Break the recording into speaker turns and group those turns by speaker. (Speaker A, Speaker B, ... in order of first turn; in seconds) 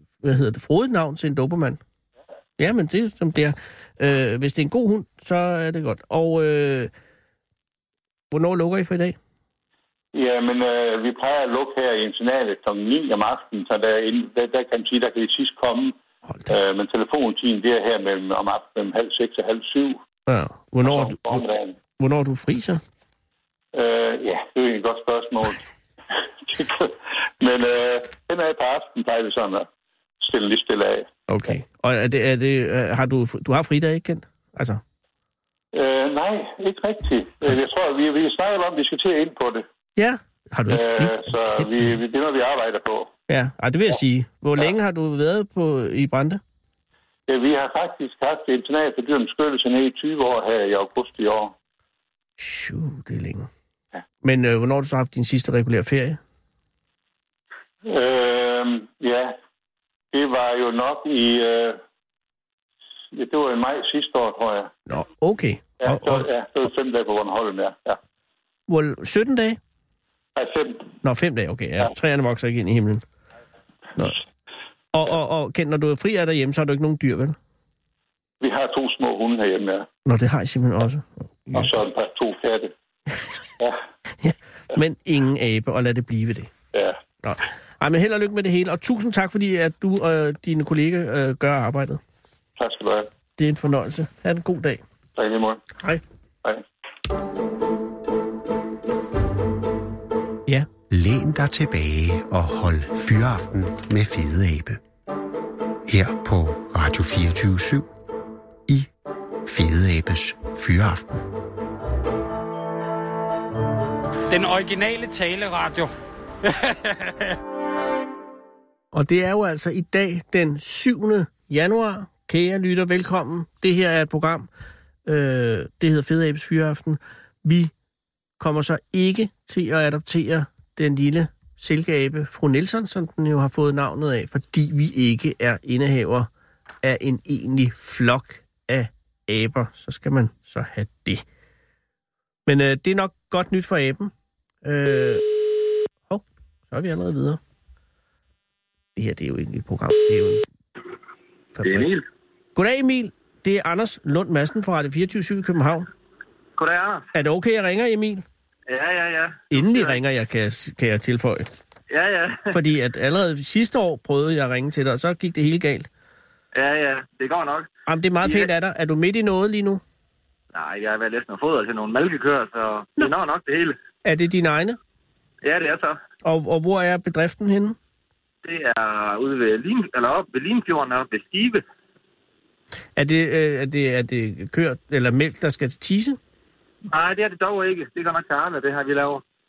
Speaker A: 0.2-1.8, 2.6-6.9, 8.3-9.2, 20.3-21.4, 22.0-22.8, 31.3-34.8, 40.0-41.9, 43.3-46.4, 52.4-53.5, 54.2-56.2, 64.9-66.3, 68.7-69.6, 71.0-73.0, 74.9-77.4, 80.0-81.7, 84.2-86.5, 87.2-92.0, 93.4-94.8, 118.9-124.5, 125.0-127.7, 128.4-136.3, 136.8-141.2, 142.4-144.1, 144.6-145.2, 146.1-147.4, 148.9-150.4, 151.5-151.9, 152.5-155.9, 157.1-158.2, 159.5-161.5, 162.5-165.9, 167.9-169.8, 174.0-174.8, 176.2-177.8, 182.9-186.2
Speaker B: 10.1-20.0, 20.8-21.8, 23.7-25.6, 26.4-29.7, 30.2-31.1, 35.7-39.6, 40.7-43.1, 47.3-51.5, 57.8-59.4, 60.1-61.8, 63.1-64.7, 65.8-68.0, 70.3-70.9, 78.4-79.9, 81.5-82.7, 86.7-87.0, 92.6-93.1, 95.2-95.6
Speaker C: 100.9-104.8, 105.9-107.9, 109.4-111.2
Speaker D: 114.3-115.9, 116.4-117.4
Speaker E: 151.6-152.0, 156.6-157.1, 158.7-160.0, 161.9-162.6, 166.5-167.7, 168.2-168.5, 170.5-173.8, 175.4-176.0, 178.4-181.6, 186.9-189.2